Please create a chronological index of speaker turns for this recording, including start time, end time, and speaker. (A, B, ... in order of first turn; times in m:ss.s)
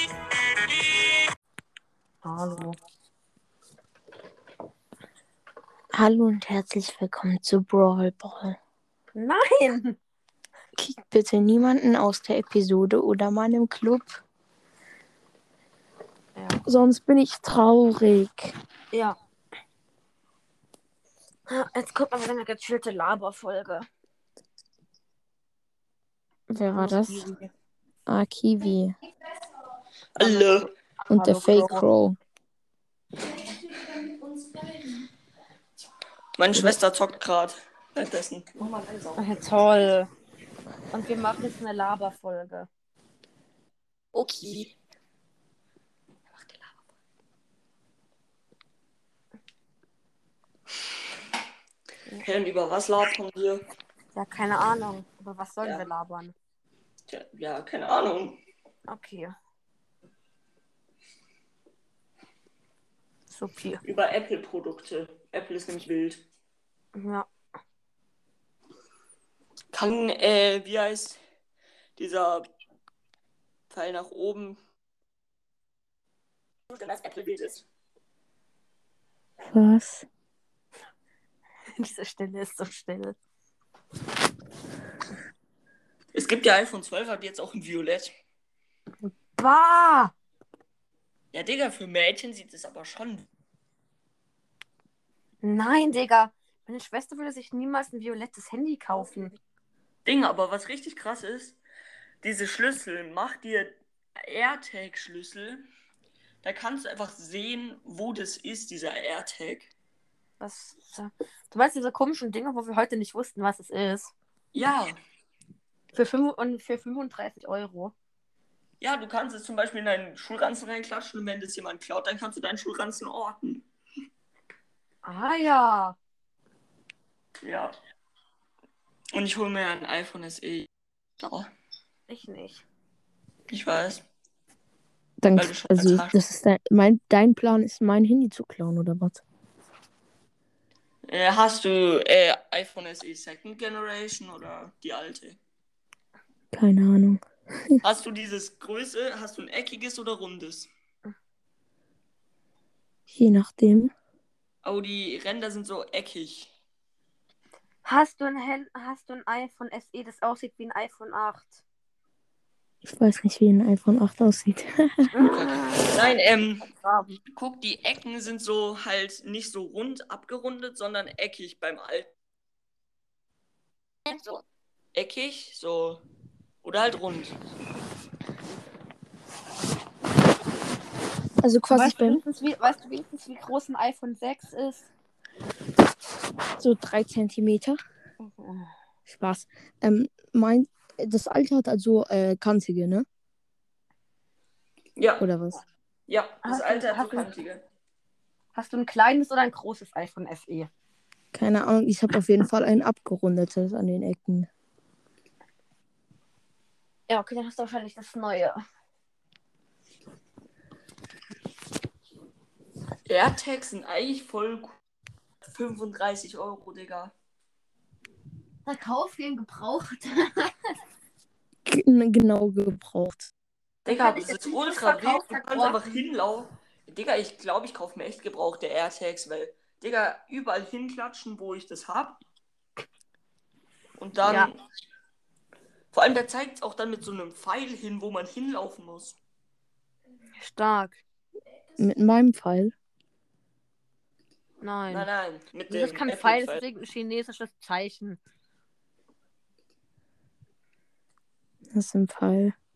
0:02.2-0:02.8 A
0:06.0-0:08.6 B
0:09.2-0:10.0 A
0:10.8-0:14.2 B
0:16.4-0:16.6 A
0:16.6-0:18.5 B
0:18.9-0:19.2 A
0:21.5-0:23.9 A
0:26.5-0:27.3 B
0:26.6-0:27.5 A
0:28.1-0:29.0 B
0:30.2-0:30.7 C
0:30.2-0:31.8 A
0:31.1-0:32.2 B
0:36.4-0:39.5 C
0:39.2-0:40.1 A
0:40.9-0:42.7 A
0:44.1-0:44.7 C
0:46.4-0:46.7 C
0:52.2-0:53.6 C
0:54.1-0:56.3 A
0:55.6-0:55.9 C
0:57.1-0:58.4 C
0:58.9-0:59.3 A
1:03.3-1:03.8 A
1:03.8-1:06.2 C
1:07.0-1:07.3 A
1:09.7-1:11.2 C
1:12.0-1:12.5 C
1:13.7-1:14.6 C
1:16.7-1:17.7 C
1:19.4-1:20.1 B
1:21.8-1:23.2 A
1:26.1-1:28.1 C
1:29.0-1:30.2 A
1:31.3-1:33.3 C
1:35.4-1:39.4 A
1:40.0-1:41.6 C
1:42.2-1:45.6 C
1:46.4-1:49.7 C
1:50.4-1:54.1 A
1:54.5-1:55.0 C
1:55.9-1:57.9 A
1:58.8-2:03.7 C
2:05.0-2:06.0 A
2:07.4-2:07.7 C
2:09.1-2:10.7 C
2:11.2-2:11.5 C
2:12.1-2:12.6 A
2:13.5-2:14.0 C
2:15.2-2:19.2 B
2:15.4-2:16.2 C
2:21.1-2:25.4 C
2:26.5-2:27.2 B
2:27.8-2:30.7 C
2:33.1-2:33.9 B
2:34.6-2:36.5 C
2:37.8-2:41.6 A
2:42.8-2:45.1 B
2:45.1-2:46.2 A
2:45.2-2:46.7 C
2:46.7-2:47.2 A
2:47.3-2:52.1 C
2:54.9-2:56.1 C
2:56.6-2:57.4 C
3:01.4-3:02.2 B
3:01.7-3:04.9 A
3:06.6-3:07.8 B
3:08.2-3:08.7 A
3:09.1-3:13.1 B
3:15.0-3:15.3 C
3:15.2-3:15.6 B
3:16.1-3:17.6 C
3:16.4-3:17.3 A
3:18.6-3:20.7 A
3:21.3-3:24.5 B
3:27.1-3:28.6 A
3:33.1-3:34.8 C
3:35.5-3:37.1 C
3:38.7-3:40.5 A
3:41.7-3:43.3 B
3:43.9-3:52.2 C
3:43.9-3:45.9 A
3:54.0-3:54.6 C
3:54.2-3:54.5 A
3:55.9-3:59.2 C
4:00.4-4:01.0 A
4:01.8-4:02.7 B
4:04.6-4:05.1 A
4:04.9-4:06.6 C
4:05.7-4:08.2 A
4:11.7-4:12.6 B